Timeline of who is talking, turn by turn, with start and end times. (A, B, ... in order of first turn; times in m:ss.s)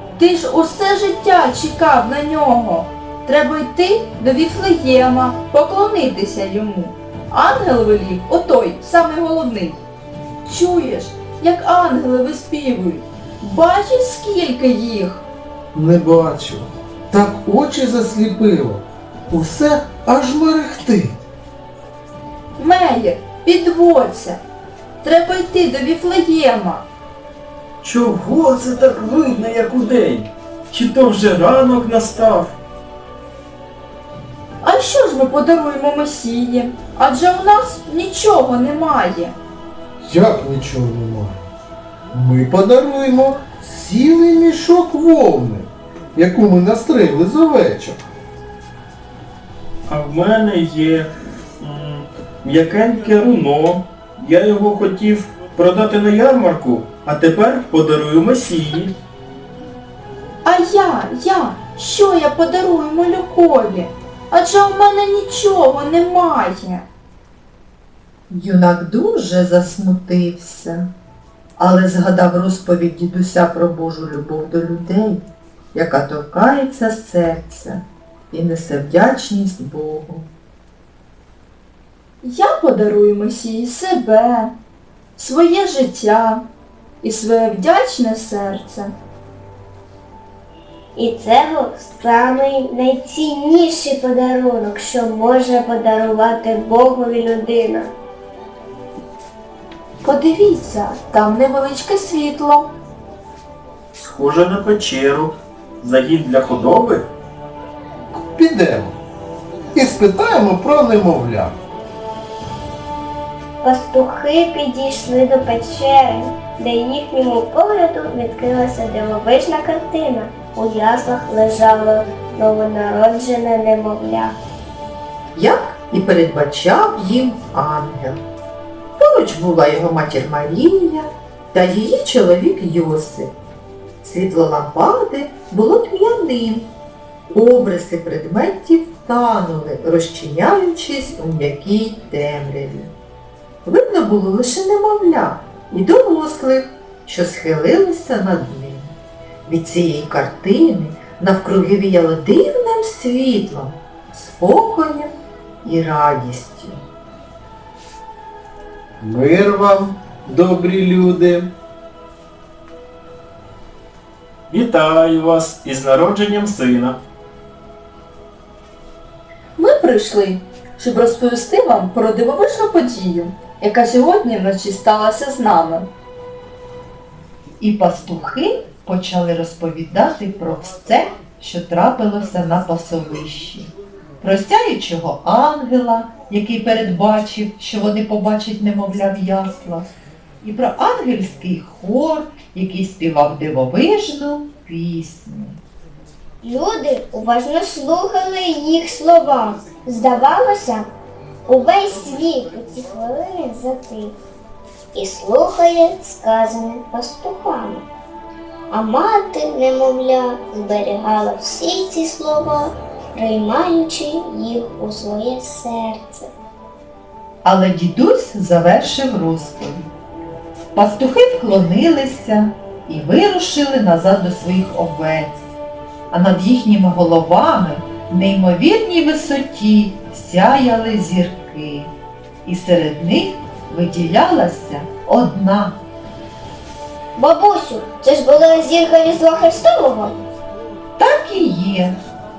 0:00.2-0:09.8 A
0:10.4-0:15.2 A
0:15.7-0:21.1 B
0:22.6-0:24.4 A
0:25.0-0:26.9 A
0:27.8-0:32.6 C
0:34.6-0:39.4 A
0:40.0-0:41.4 B
0:42.1-0:48.1 B
0:49.9-0:59.0 C
1:00.4-1:06.9 A
1:08.3-1:10.9 D
1:11.6-1:20.3 D
1:22.2-1:24.5 A
1:25.2-1:26.4 A
1:27.0-1:28.9 A
1:31.0-1:37.9 E
1:40.0-1:42.7 A
1:44.0-1:47.1 C
1:48.2-1:49.0 B
1:49.7-1:51.6 B
1:53.6-2:04.4 E
2:05.4-2:08.2 D
2:09.0-2:13.3 D
2:14.0-2:16.7 D
2:17.3-2:22.9 D
2:23.6-2:29.0 D
2:29.5-2:35.1 D
2:35.6-2:36.8 D
2:39.0-2:41.5 B
2:44.5-2:47.0 C
2:49.6-2:55.9 A
2:57.6-3:09.9 D
3:10.4-3:15.6 D
3:16.4-3:20.9 E
3:21.5-3:24.2 E
3:24.9-3:27.8 E
3:28.7-3:36.3 E
3:37.4-3:39.9 D
3:40.8-3:45.5 D
3:46.1-3:51.9 D
3:52.4-3:55.8 D
3:57.2-4:00.2 E
4:01.0-4:02.0 D